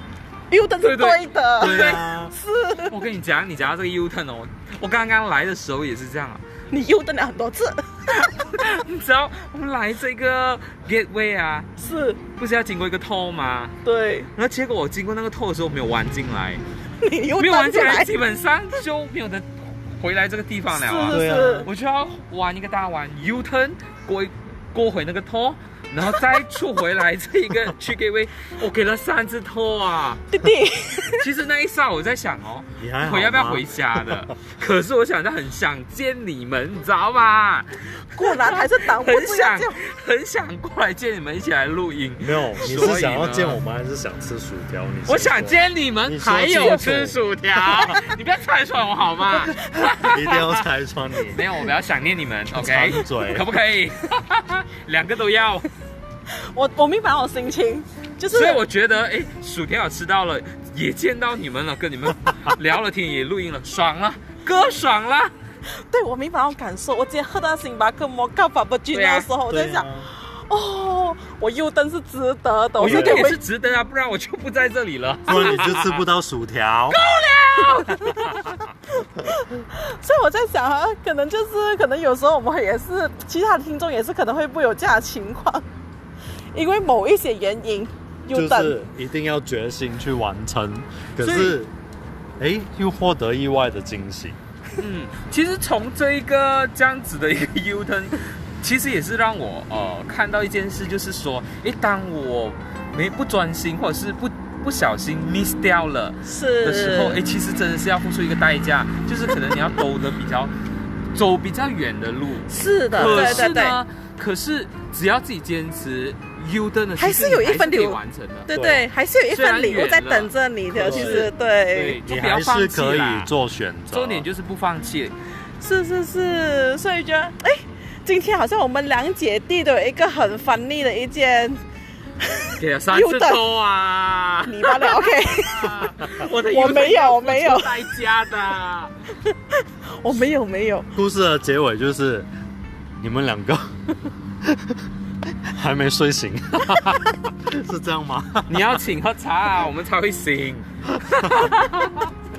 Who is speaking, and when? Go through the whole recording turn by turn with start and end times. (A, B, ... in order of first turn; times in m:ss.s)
0:00.5-0:03.1 A
0:00.8-0:02.1 B
0:01.6-0:02.3 C
0:02.9-0:06.4 B
0:06.7-0:08.5 A
0:08.1-0:11.7 B
0:11.8-0:12.2 A
0:12.4-0:13.8 B
0:13.8-0:14.3 A
0:14.4-0:16.6 B
0:17.0-0:18.1 A
0:17.4-0:30.2 B
0:20.7-0:21.7 A
0:21.1-0:21.7 C
0:30.3-0:31.3 A
0:31.2-0:43.6 B
0:32.8-0:34.2 C
0:38.1-0:39.8 A
0:42.2-0:47.2 C
0:45.1-0:50.6 B
0:49.7-0:51.4 C
0:51.3-0:55.7 B
0:52.5-0:53.4 C
0:56.4-0:58.6 A
0:58.3-1:05.3 B
1:05.7-1:13.4 A
1:08.9-1:09.3 B
1:09.5-1:10.1 C
1:12.8-1:16.0 B
1:12.8-1:13.3 C
1:15.3-1:17.0 C
1:16.9-1:18.6 B
1:17.7-1:18.5 A
1:19.0-1:25.6 A
1:26.5-1:28.8 A
1:28.3-1:31.7 C
1:31.2-1:31.6 B
1:32.4-1:34.4 C
1:34.8-1:50.5 B
1:46.2-1:47.2 A
1:51.1-1:58.5 B
1:52.5-1:53.8 A
1:52.9-1:53.6 C
1:57.0-2:02.0 A
1:58.5-1:58.9 C
1:59.3-2:03.3 B
2:00.7-2:01.3 C
2:02.0-2:04.3 C
2:03.9-2:05.2 B
2:05.6-2:11.6 A
2:12.2-2:13.4 A
2:12.6-2:18.9 B
2:14.4-2:17.9 A
2:19.2-2:20.9 A
2:21.0-2:22.3 C
2:23.0-2:23.7 C
2:24.4-2:28.8 C
2:28.5-2:32.1 B